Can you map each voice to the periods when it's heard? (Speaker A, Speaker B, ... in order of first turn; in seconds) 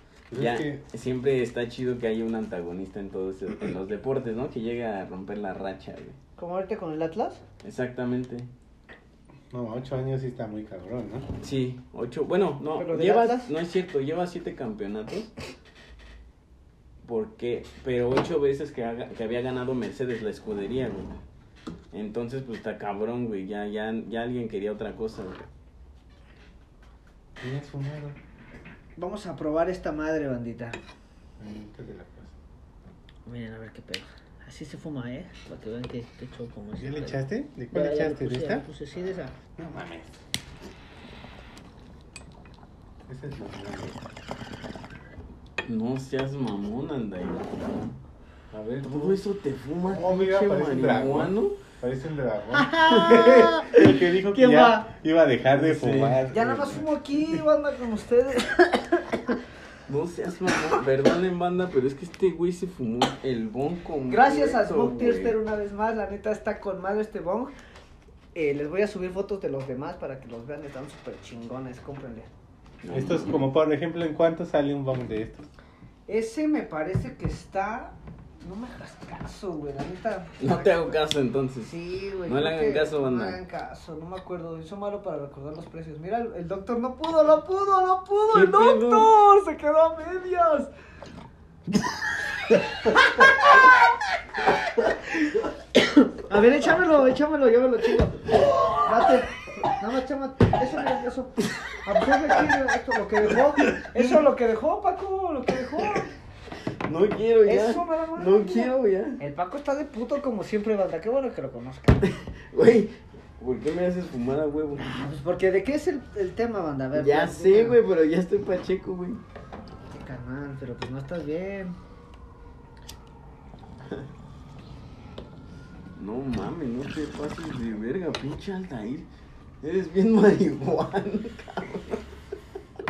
Speaker A: 0.3-0.8, 9.5-11.3, 27.4-28.2, 31.4-32.3, 36.8-38.7, 39.6-40.1, 43.1-44.0, 48.5-49.2, 49.9-57.4, 72.9-75.5
Speaker B: 0.3-6.2, 7.6-8.5, 11.4-15.3, 17.0-21.2, 21.9-25.5, 45.6-47.8, 48.8-51.6, 52.9-53.4, 55.5-56.2, 59.9-65.4, 72.8-73.4, 80.4-83.4, 88.3-89.1, 98.5-98.8, 103.6-104.2, 106.8-109.2, 112.1-115.1, 116.9-119.2, 126.0-129.1, 129.6-132.1
Speaker C: 6.4-7.4, 12.8-13.5, 29.0-30.8, 33.3-39.4, 52.5-54.9, 56.3-59.4, 64.1-67.5, 68.3-72.3, 76.1-81.0, 81.6-90.7, 92.8-93.6, 94.8-106.1, 107.5-112.1, 114.8-117.8, 119.9-121.8